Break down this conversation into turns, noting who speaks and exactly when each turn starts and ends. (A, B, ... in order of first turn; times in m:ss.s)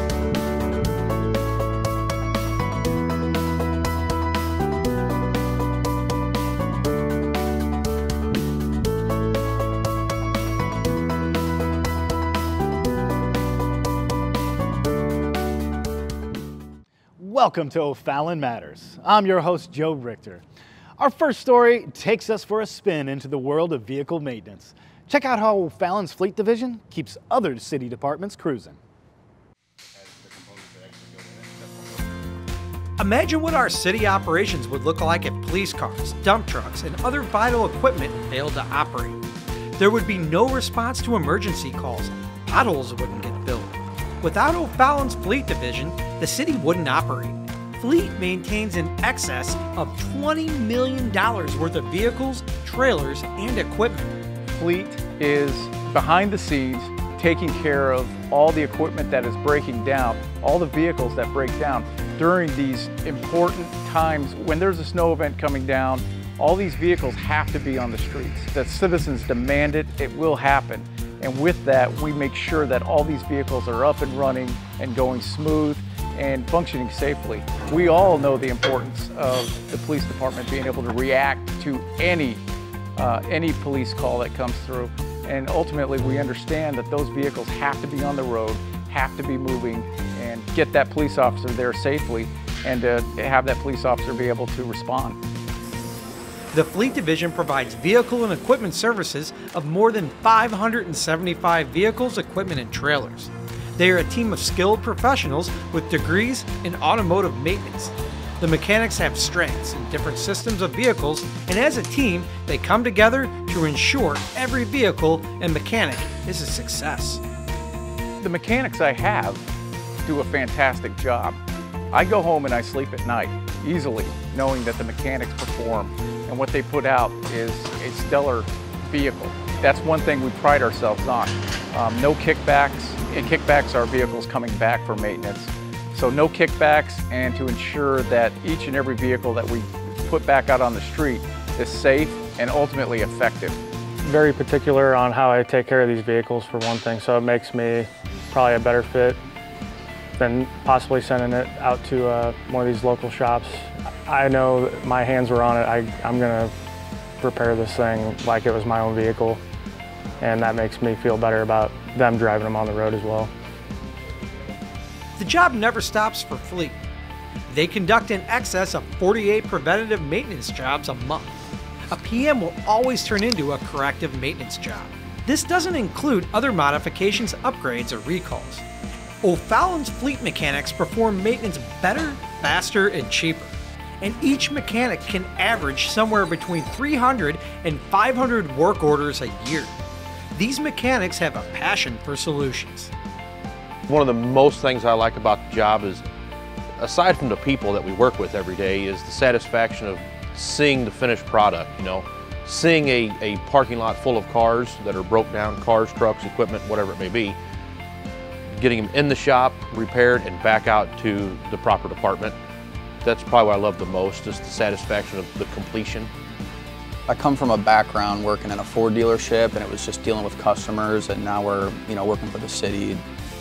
0:17.2-0:20.4 A
0:21.0-0:28.8 A
0:33.0-0:39.2 B
0:39.8-0:54.2 B
0:54.5-1:22.4 C
1:23.0-1:35.2 C
1:36.5-1:57.2 B
1:58.2-1:59.5 C
2:00.0-2:01.4 C
2:01.9-2:23.6 C
2:24.0-2:29.2 D
2:30.2-2:36.6 D
2:37.2-2:39.4 D
2:40.2-2:43.3 D
2:45.2-2:46.8 B
2:47.5-2:51.4 B
2:51.9-2:58.6 B
2:59.2-3:09.8 B
3:10.3-3:12.9 B
3:13.9-3:16.0 E
3:16.8-3:27.4 E
3:28.5-3:32.4 E
3:33.0-3:36.1 E
3:37.1-3:43.0 F